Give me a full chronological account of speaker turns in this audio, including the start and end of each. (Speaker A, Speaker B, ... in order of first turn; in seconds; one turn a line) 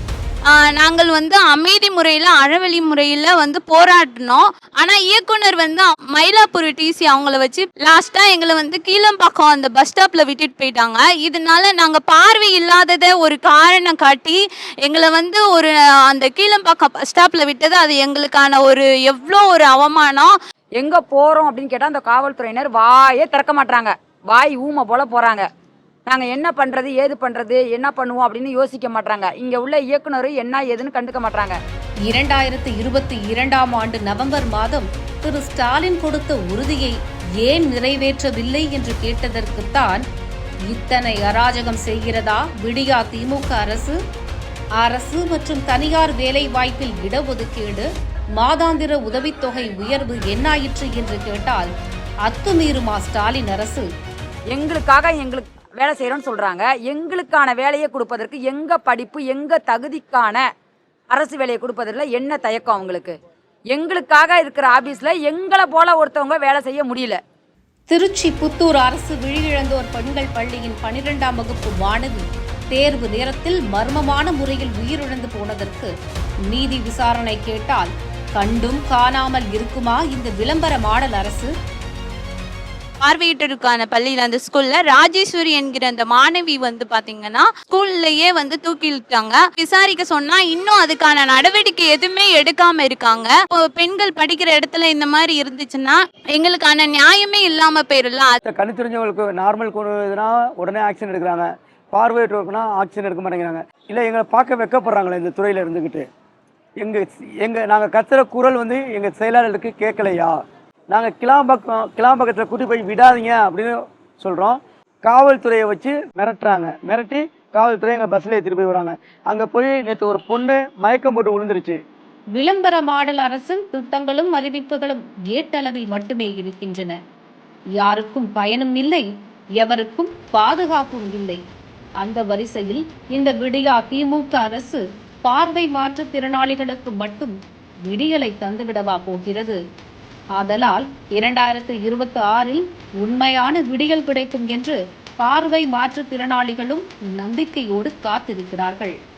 Speaker A: 0.6-20.3
Speaker B: 20.8-25.4
Speaker B: 26.1-31.6
Speaker C: 32.1-40.0
Speaker C: 40.7-44.0
Speaker C: 44.8-51.7
Speaker C: 52.3-53.9
Speaker B: 54.5-60.4
Speaker B: 61.1-63.1
Speaker B: 63.7-67.2
Speaker C: 67.9-75.9
Speaker C: 76.5-81.5
Speaker A: 83.0-98.4
Speaker D: 98.5-106.0
Speaker D: 106.8-110.4
Speaker D: 110.9-121.8
Speaker C: 122.3-127.0
Speaker C: 127.8-129.1
Speaker C: 129.6-131.4
Speaker C: 132.0-137.3
Speaker C: 137.9-139.6
Speaker C: 140.3-148.9